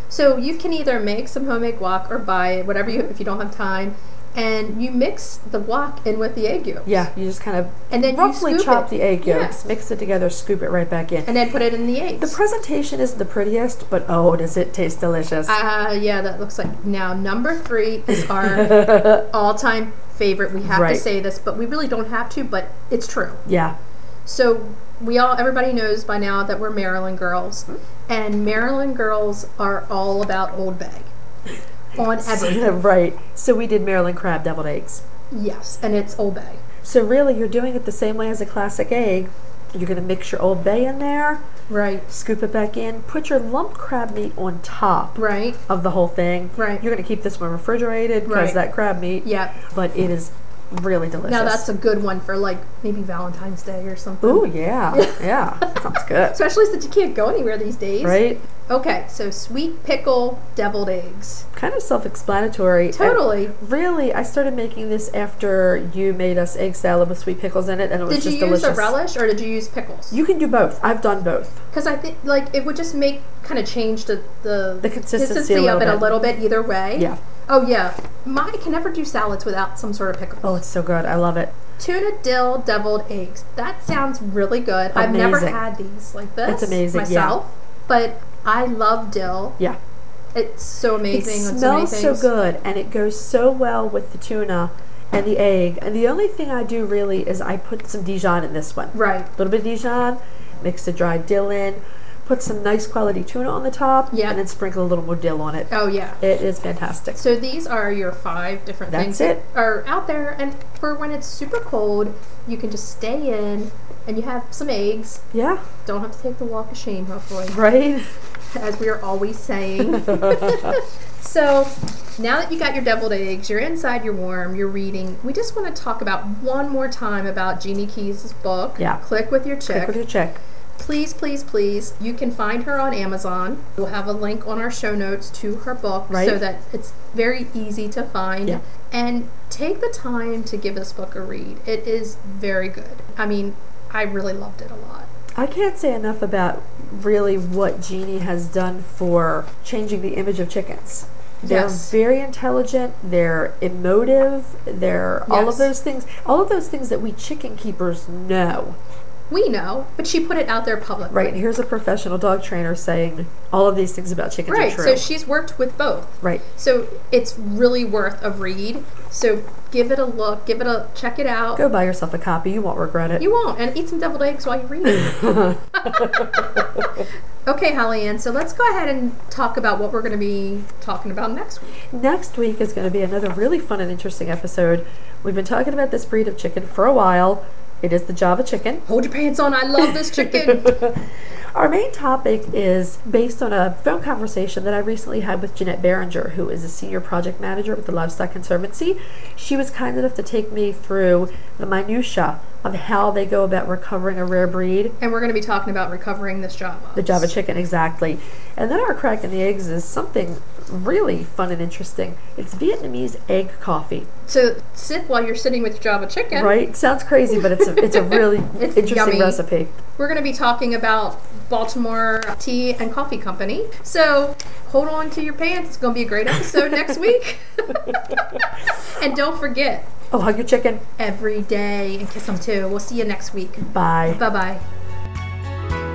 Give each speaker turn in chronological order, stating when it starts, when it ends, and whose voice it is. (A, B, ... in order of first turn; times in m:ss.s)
0:00.1-0:07.0 A
0:06.8-0:11.3 B
0:07.9-0:09.6 A
0:11.2-0:12.4 A
0:12.2-0:15.5 B
0:15.4-0:23.4 A
0:18.1-0:19.2 B
0:20.6-0:21.0 B
0:23.4-0:23.7 B
0:24.2-0:31.1 A
0:32.0-0:32.8 A
0:32.2-0:35.0 B
0:35.3-0:36.6 A
0:36.8-0:41.4 B
0:41.7-0:42.1 A
0:42.1-0:51.7 B
0:45.2-0:45.6 A
0:46.5-0:46.8 A
0:48.2-0:48.6 A
0:49.2-0:49.6 A
0:51.3-0:55.7 A
0:54.2-0:56.4 B
0:56.3-1:01.4 A
0:58.0-0:58.4 B
1:01.5-1:09.0 B
1:02.9-1:03.5 A
1:08.1-1:10.2 A
1:10.1-1:11.6 B
1:11.7-1:20.6 A
1:14.8-1:16.3 B
1:20.4-1:21.5 B
1:21.8-1:29.6 A
1:24.9-1:25.6 B
1:26.4-1:27.4 B
1:30.3-1:32.3 A
1:31.1-1:47.2 B
1:38.9-1:39.3 A
1:44.1-1:44.4 A
1:45.7-1:46.2 A
1:47.1-1:55.2 A
1:48.9-1:49.4 B
1:55.3-1:55.6 B
1:55.8-1:57.6 A
1:57.5-1:58.1 B
1:58.5-2:10.0 A
1:59.9-2:00.8 B
2:09.7-2:10.4 B
2:10.8-2:25.1 A
2:16.1-2:16.4 B
2:25.3-2:38.8 B
2:31.4-2:31.9 A
2:35.3-2:35.7 A
2:39.3-2:41.4 A
2:41.1-2:45.1 B
2:44.5-2:51.6 A
2:51.5-2:53.2 B
2:53.2-2:56.4 A
2:54.8-2:57.0 B
2:57.4-3:01.7 A
3:01.9-3:08.8 B
3:08.8-3:10.7 A
3:09.8-3:25.0 B
3:25.0-3:27.3 A
3:27.0-3:34.1 B
3:34.3-3:36.5 A
3:36.3-3:39.8 B
3:37.6-3:39.4 A
3:40.0-3:48.2 A
3:46.4-3:46.9 B
3:47.8-3:48.2 B
3:49.0-3:49.9 A
3:50.1-3:50.8 B
3:51.0-3:54.6 A
3:53.6-3:54.2 B